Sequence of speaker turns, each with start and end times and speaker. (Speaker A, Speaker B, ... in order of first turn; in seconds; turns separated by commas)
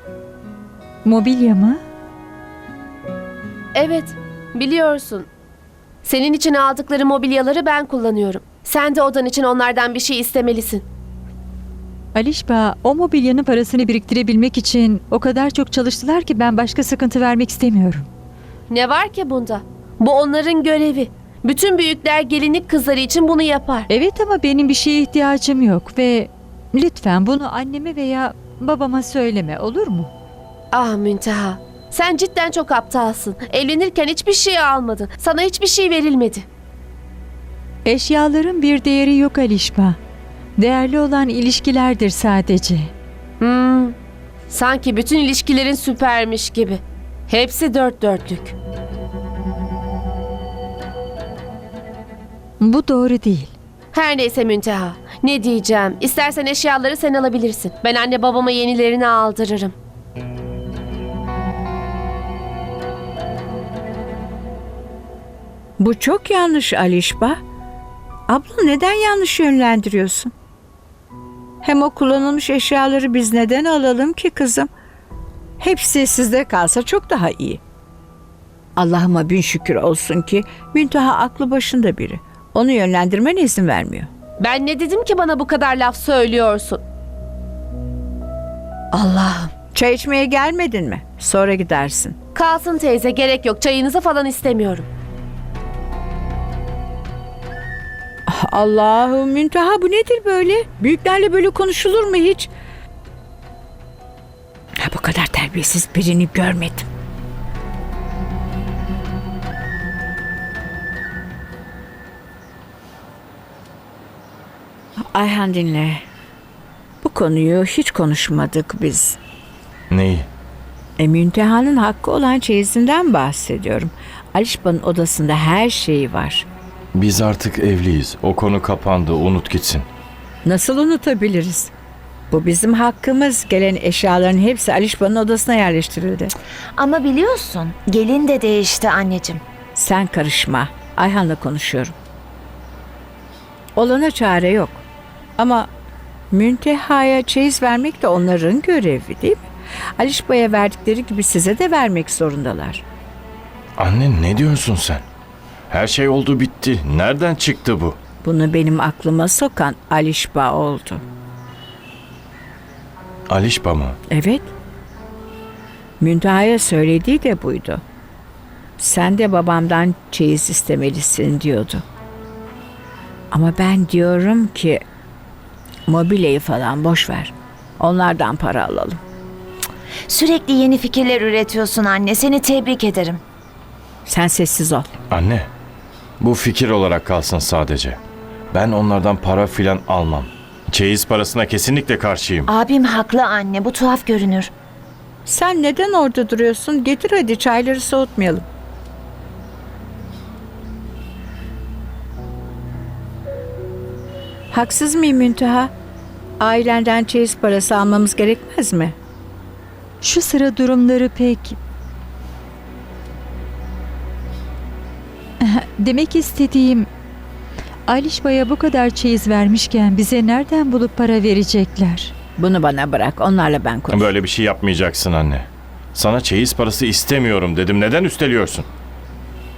Speaker A: 1.0-1.8, Speaker B: 3.7-5.3, Speaker B: 6.0-10.8, Speaker A: 12.1-18.1, Speaker B: 18.7-23.9, Speaker A: 23.9-30.1, Speaker B: 30.7-36.5, Speaker A: 37.9-40.0, Speaker A: 40.6-42.9, Speaker B: 43.4-43.9, Speaker B: 44.5-48.5, Speaker A: 52.6-53.5, Speaker B: 53.9-59.7, Speaker C: 65.8-67.4, Speaker C: 68.3-70.3, Speaker C: 71.6-74.7, Speaker C: 75.6-77.6, Speaker C: 78.8-84.1, Speaker B: 84.4-86.8, Speaker C: 89.0-92.2, Speaker B: 92.3-94.9, Speaker C: 98.3-102.5, Speaker C: 104.8-106.9, Speaker C: 115.1-116.0, Speaker C: 117.0-119.2, Speaker D: 119.9-120.3, Speaker C: 121.0-126.5, Speaker D: 126.9-129.9, Speaker C: 130.4-131.7, Speaker C: 132.3-136.3, Speaker E: 136.8-139.4, Speaker C: 139.8-141.9, Speaker C: 143.8-144.8, Speaker C: 145.4-145.7, Speaker C: 146.3-149.4, Speaker C: 150.0-152.8, Speaker D: 153.8-155.0, Speaker D: 155.7-158.0, Speaker C: 158.2-161.0, Speaker D: 163.3-164.0, Speaker C: 164.1-164.5, Speaker C: 166.0-167.8, Speaker C: 168.8-171.8, Speaker C: 173.3-174.8, Speaker C: 175.9-179.0, Speaker E: 180.1-183.2, Speaker C: 184.1-184.9, Speaker D: 185.1-185.5, Speaker D: 186.2-188.0, Speaker D: 188.5-192.5, Speaker E: 192.5-194.5, Speaker C: 195.2-198.4, Speaker C: 204.5-205.7, Speaker C: 206.4-208.9, Speaker A: 210.0-211.6, Speaker A: 215.4-216.9, Speaker A: 217.9-222.1, Speaker C: 222.4-224.1, Speaker D: 223.9-228.7